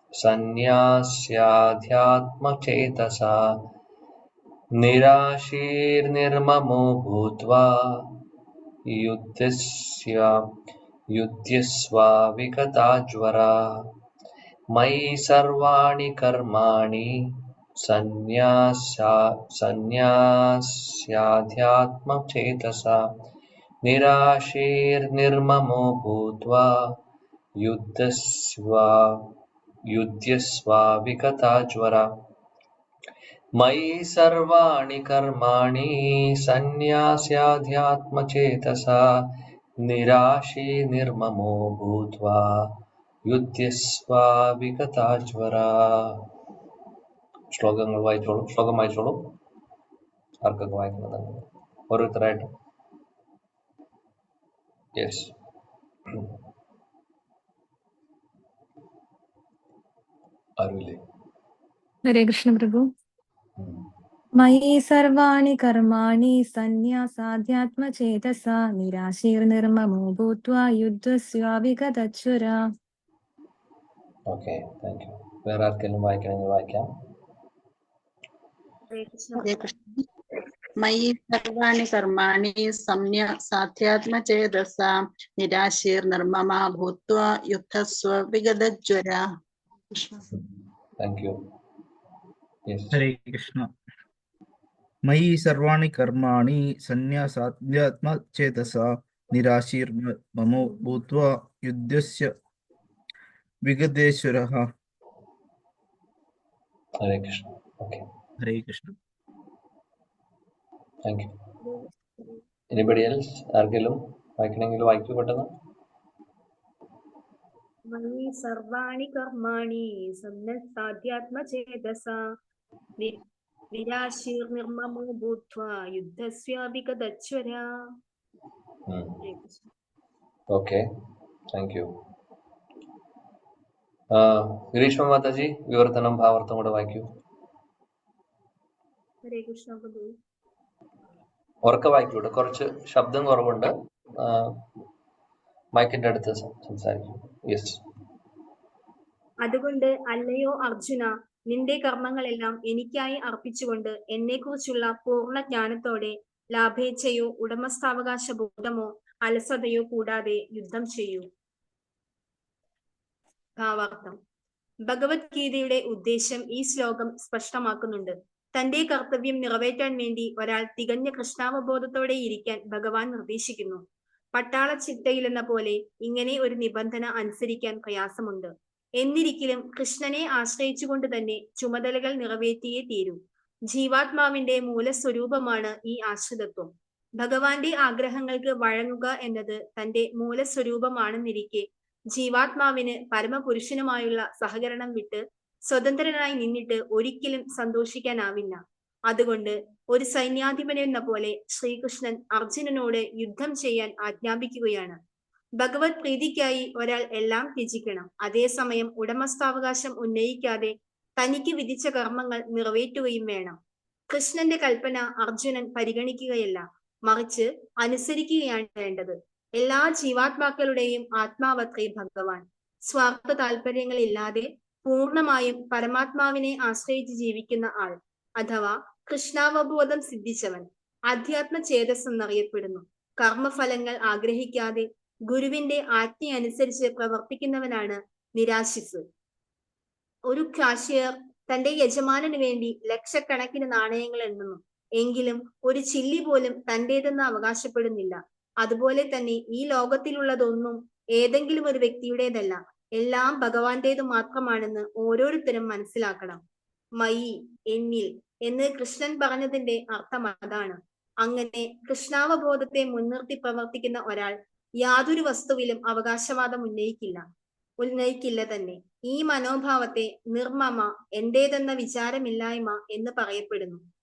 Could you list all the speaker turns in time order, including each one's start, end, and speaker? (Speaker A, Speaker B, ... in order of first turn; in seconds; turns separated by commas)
Speaker A: 0.2-3.6, Speaker A: 4.8-8.1, Speaker A: 8.9-10.4, Speaker A: 11.1-13.8, Speaker A: 14.7-17.1, Speaker A: 17.8-23.0, Speaker A: 23.8-26.7, Speaker A: 27.6-29.2, Speaker A: 29.9-32.1, Speaker A: 33.6-39.0, Speaker A: 39.8-42.7, Speaker A: 43.2-46.2, Speaker A: 47.5-49.3, Speaker A: 50.4-52.5, Speaker A: 55.0-55.3, Speaker A: 60.6-61.0, Speaker B: 62.1-62.9, Speaker A: 63.6-63.8, Speaker B: 64.4-72.6, Speaker A: 74.3-76.9, Speaker C: 78.9-79.5, Speaker D: 79.4-80.0, Speaker D: 80.8-89.2, Speaker D: 89.9-90.2, Speaker A: 91.0-91.4, Speaker A: 92.7-93.0, Speaker E: 92.9-93.7, Speaker E: 95.0-102.3, Speaker E: 103.6-104.7, Speaker A: 107.0-108.1, Speaker E: 108.4-108.9, Speaker A: 111.0-111.3, Speaker C: 111.6-112.4, Speaker A: 112.7-115.5, Speaker C: 117.9-122.3, Speaker C: 123.7-127.7, Speaker A: 128.9-129.2, Speaker C: 129.2-129.6, Speaker A: 130.5-130.8, Speaker A: 131.5-131.9, Speaker A: 134.1-137.1, Speaker C: 139.2-140.1, Speaker A: 141.6-144.6, Speaker A: 145.8-147.8, Speaker C: 149.4-161.3, Speaker C: 163.6-164.2, Speaker C: 164.9-173.8, Speaker C: 174.3-205.0, Speaker C: 205.6-213.6, Speaker C: 214.1-239.0, Speaker C: 240.3-256.4, Speaker C: 257.0-267.2, Speaker C: 267.8-273.8